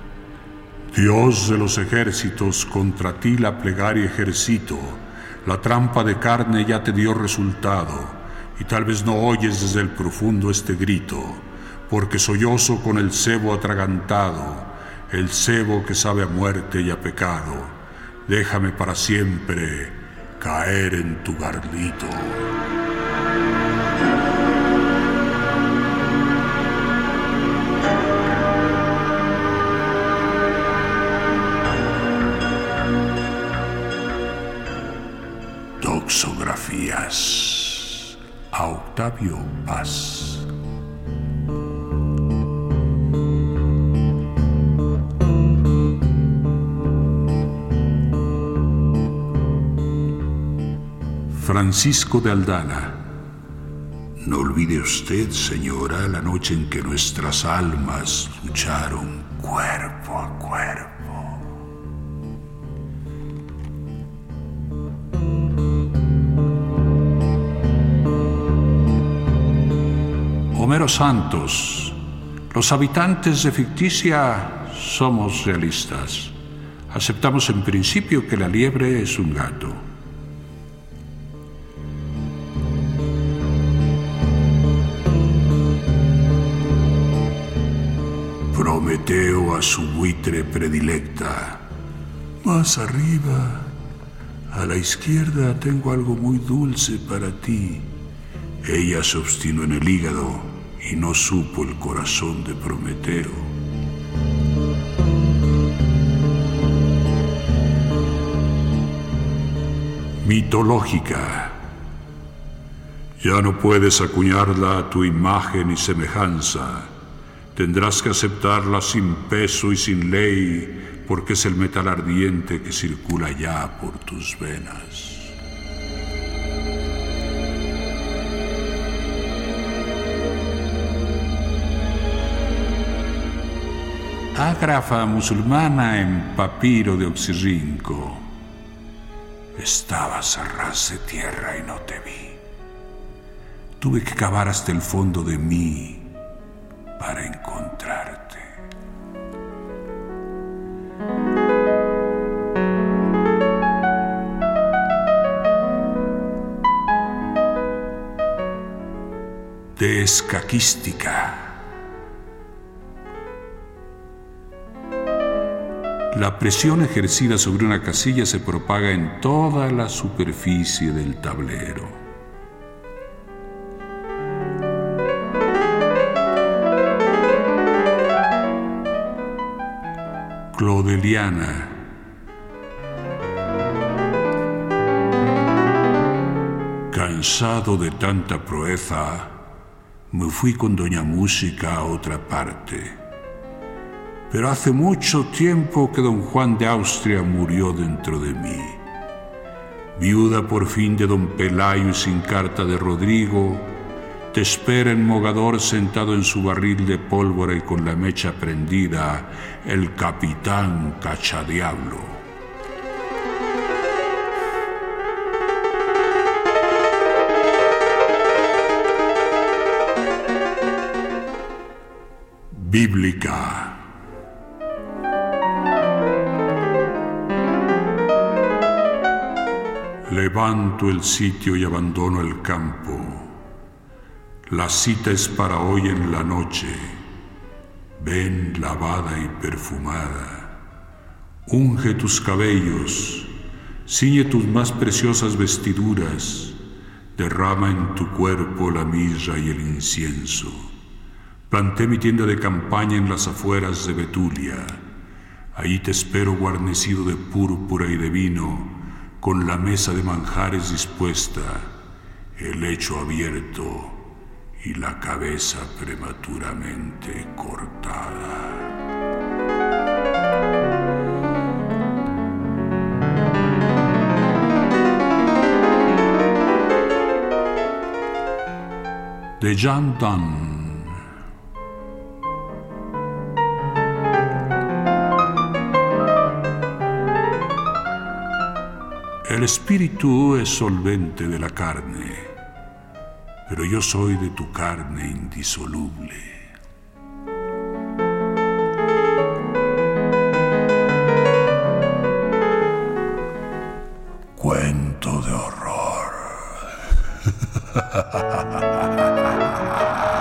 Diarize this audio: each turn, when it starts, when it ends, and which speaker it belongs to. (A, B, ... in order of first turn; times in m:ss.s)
0:00.9-0:22.5 A
0:35.8-0:40.5 A
0:51.3-0:53.1 A
0:54.2-1:01.4 A
1:10.5-1:16.4 A
1:16.9-1:19.8 A
1:28.5-1:31.7 A
1:32.4-1:33.8 A
1:34.5-1:37.9 A
1:38.6-1:43.5 A
1:50.2-1:51.6 A
1:53.2-1:56.9 A
1:57.5-2:05.4 A
2:14.4-2:18.3 A
2:19.6-2:22.4 A
2:23.8-2:26.2 A
2:27.0-2:28.5 A
2:39.8-2:41.6 A
2:46.1-2:52.0 A
3:00.5-3:01.9 A
3:06.9-3:09.5 A
3:10.1-3:13.0 A
3:14.3-3:18.8 A
3:20.0-3:23.8 A
3:24.3-3:32.2 A
3:42.5-3:43.9 A
3:50.1-3:53.4 A
3:54.5-3:57.0 A
3:58.0-4:00.6 A
4:01.5-4:03.4 A
4:03.9-4:06.6 A
4:07.2-4:10.7 A
4:11.5-4:14.8 A
4:15.5-4:21.7 A
4:22.4-4:24.1 A
4:24.6-4:28.7 A
4:39.4-4:41.0 A
4:49.2-4:52.4 A
4:53.5-4:56.5 A
5:04.4-5:06.5 A
5:07.7-5:08.6 A